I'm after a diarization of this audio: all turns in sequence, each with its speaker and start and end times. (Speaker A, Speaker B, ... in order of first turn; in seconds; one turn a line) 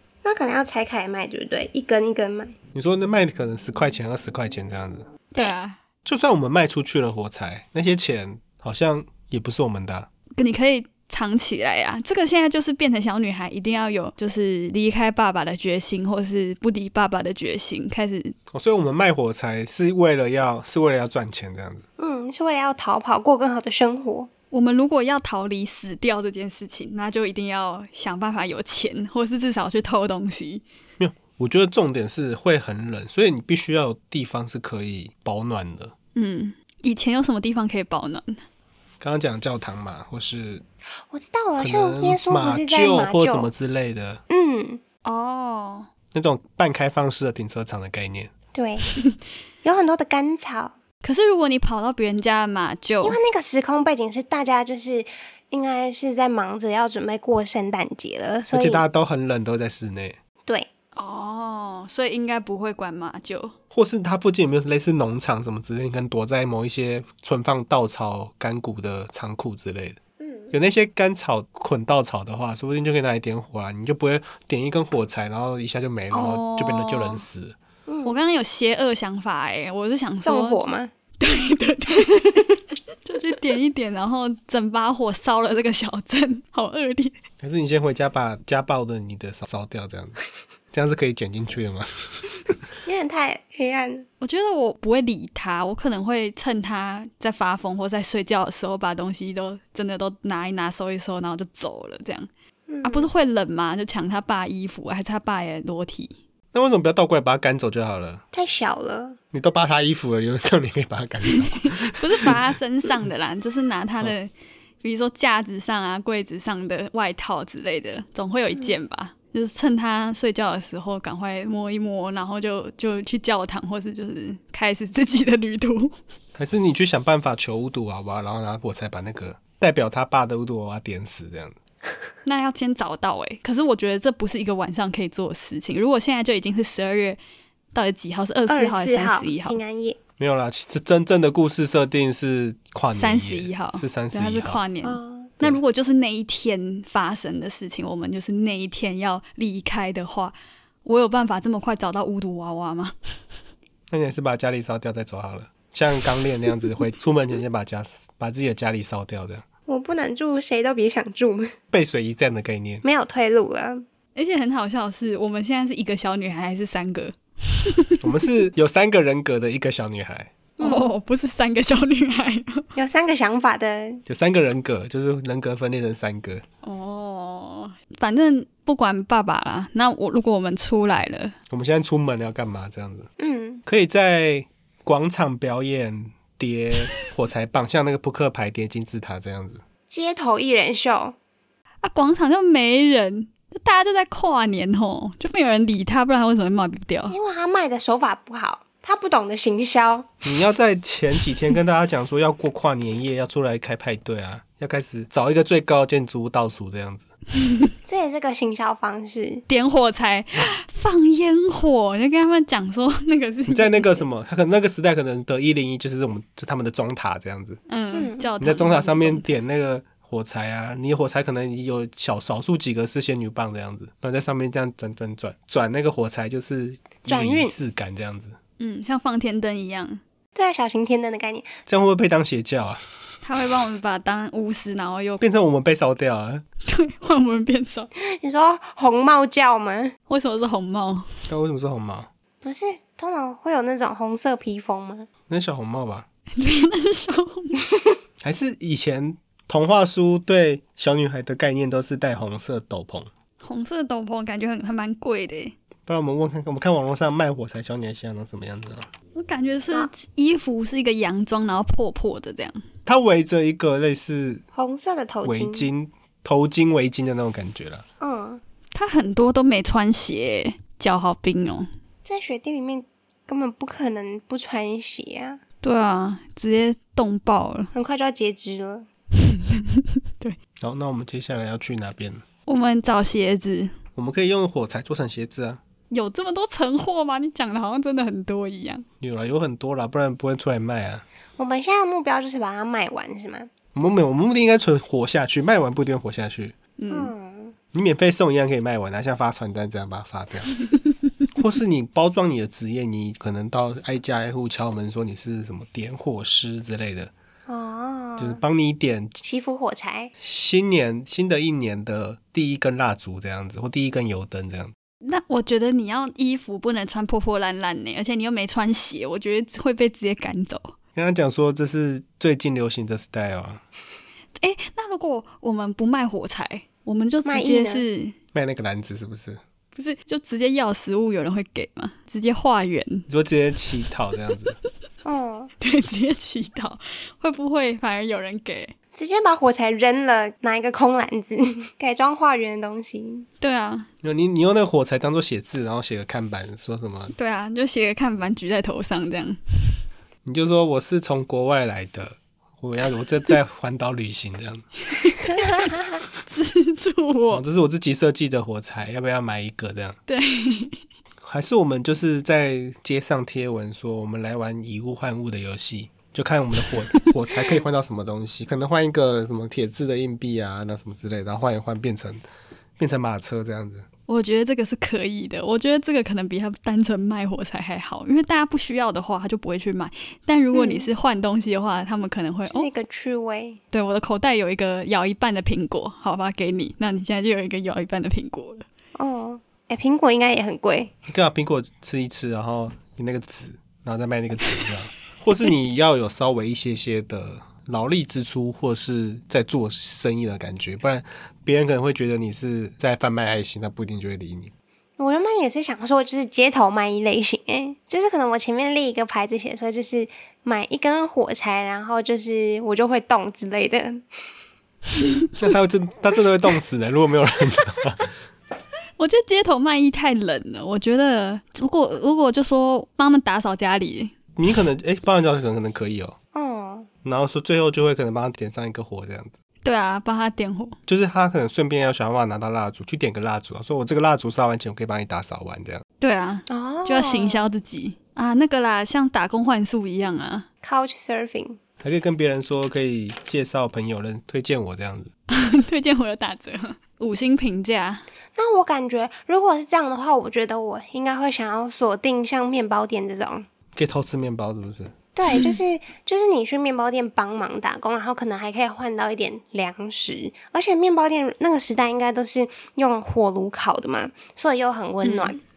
Speaker A: 0.2-2.5
Speaker B: 2.7-5.1
Speaker C: 5.3-5.8
Speaker B: 6.0-10.1
Speaker C: 10.4-18.3
Speaker B: 18.5-21.8
Speaker A: 22.0-24.3
Speaker C: 24.5-30.6
Speaker B: 31.0-35.9
Speaker C: 36.1-38.4
Speaker B: 39.0-40.6
Speaker A: 41.1-43.5
Speaker B: 41.6-44.2
Speaker A: 44.3-44.8
Speaker C: 45.0-45.9
Speaker B: 46.1-48.3
Speaker A: 48.5-48.9
Speaker A: 49.6-50.7
Speaker C: 51.0-53.2
Speaker A: 53.0-58.8
Speaker B: 58.5-60.2
Speaker C: 61.0-63.5
Speaker B: 63.7-70.0
Speaker A: 70.2-70.5
Speaker B: 70.5-77.6
Speaker C: 76.1-77.2
Speaker A: 77.9-78.2
Speaker C: 78.0-80.6
Speaker A: 80.2-80.9
Speaker C: 81.2-82.5
Speaker C: 83.0-87.2
Speaker B: 87.4-90.2
Speaker B: 90.7-92.6
Speaker A: 92.8-94.0
Speaker C: 94.2-102.3
Speaker A: 102.7-103.1
Speaker C: 102.8-106.1
Speaker B: 106.5-108.2
Speaker A: 108.3-109.2
Speaker B: 109.3-112.4
Speaker C: 111.5-114.3
Speaker C: 114.8-125.9
Speaker B: 126.3-131.6
Speaker C: 132.2-137.2
Speaker C: 137.7-139.6
Speaker A: 138.5-140.0
Speaker B: 140.2-144.6
Speaker C: 142.9-150.3
Speaker A: 144.8-145.3
Speaker C: 150.8-152.9
Speaker B: 153.9-159.4
Speaker A: 159.7-161.5
Speaker B: 161.7-162.8
Speaker A: 162.8-163.8
Speaker C: 164.1-168.0
Speaker B: 168.0-170.3
Speaker A: 170.6-170.9
Speaker C: 170.6-172.7
Speaker A: 172.8-174.0
Speaker B: 174.1-176.4
Speaker C: 176.6-181.3
Speaker B: 181.5-183.1
Speaker A: 183.2-183.6
Speaker B: 183.7-189.6
Speaker A: 189.9-191.2
Speaker C: 191.8-197.2
Speaker A: 197.1-200.1
Speaker B: 200.2-207.1
Speaker A: 207.8-209.4
Speaker C: 209.5-214.0
Speaker B: 213.5-217.6
Speaker C: 217.7-219.3
Speaker A: 217.9-218.3
Speaker B: 218.4-228.4
Speaker A: 227.1-227.5
Speaker C: 228.6-230.0
Speaker A: 230.3-231.6
Speaker B: 231.7-232.8
Speaker C: 233.2-235.2
Speaker B: 235.2-236.4
Speaker C: 236.6-237.9
Speaker A: 238.0-239.9
Speaker C: 240.1-241.1
Speaker B: 241.3-242.1
Speaker A: 242.4-245.1
Speaker B: 245.3-246.1
Speaker C: 246.4-247.6
Speaker B: 248.2-253.1
Speaker C: 253.4-255.5
Speaker B: 255.9-258.9
Speaker C: 259.1-262.6
Speaker B: 262.9-264.4
Speaker A: 264.5-265.7
Speaker B: 265.2-267.8
Speaker A: 268.0-268.4
Speaker C: 268.7-271.7
Speaker A: 272.1-275.4
Speaker C: 275.6-277.7
Speaker A: 277.7-278.9
Speaker C: 279.2-280.4
Speaker B: 280.6-282.2
Speaker C: 282.5-283.7
Speaker B: 283.9-285.6
Speaker C: 285.9-288.9
Speaker B: 289.0-291.0
Speaker A: 291.4-293.5
Speaker B: 293.7-296.5
Speaker C: 296.8-297.1
Speaker A: 296.9-297.6
Speaker B: 297.7-300.5
Speaker B: 301.3-307.1
Speaker A: 307.5-308.4
Speaker B: 308.2-309.2
Speaker A: 309.2-310.1
Speaker B: 310.2-314.7
Speaker C: 315.0-320.7
Speaker B: 320.9-323.6
Speaker C: 324.4-328.1
Speaker A: 327.2-327.8
Speaker B: 328.3-329.4
Speaker C: 329.7-333.1
Speaker B: 333.1-334.6
Speaker A: 335.0-335.5
Speaker C: 335.6-338.7
Speaker A: 338.9-343.3
Speaker C: 343.4-343.9
Speaker B: 344.0-347.1
Speaker C: 347.1-349.8
Speaker B: 350.2-354.7
Speaker C: 354.9-355.7
Speaker C: 356.3-357.4
Speaker B: 357.3-360.0
Speaker C: 360.1-360.8
Speaker B: 361.2-372.2
Speaker B: 372.8-373.9
Speaker C: 374.1-382.7
Speaker A: 380.5-380.9
Speaker A: 382.5-383.6
Speaker C: 383.7-388.6
Speaker A: 388.9-390.9
Speaker B: 391.1-404.5
Speaker A: 405.0-414.0
Speaker B: 415.4-418.1
Speaker C: 419.0-424.1
Speaker B: 424.4-426.2
Speaker A: 426.3-426.9
Speaker B: 427.0-429.3
Speaker C: 429.6-430.8
Speaker B: 430.9-435.8
Speaker C: 436.0-440.5
Speaker A: 436.5-437.5
Speaker A: 440.6-441.6
Speaker B: 441.8-445.1
Speaker C: 445.3-448.0
Speaker A: 448.3-453.5
Speaker B: 453.7-454.9
Speaker A: 455.1-465.4
Speaker C: 465.0-465.3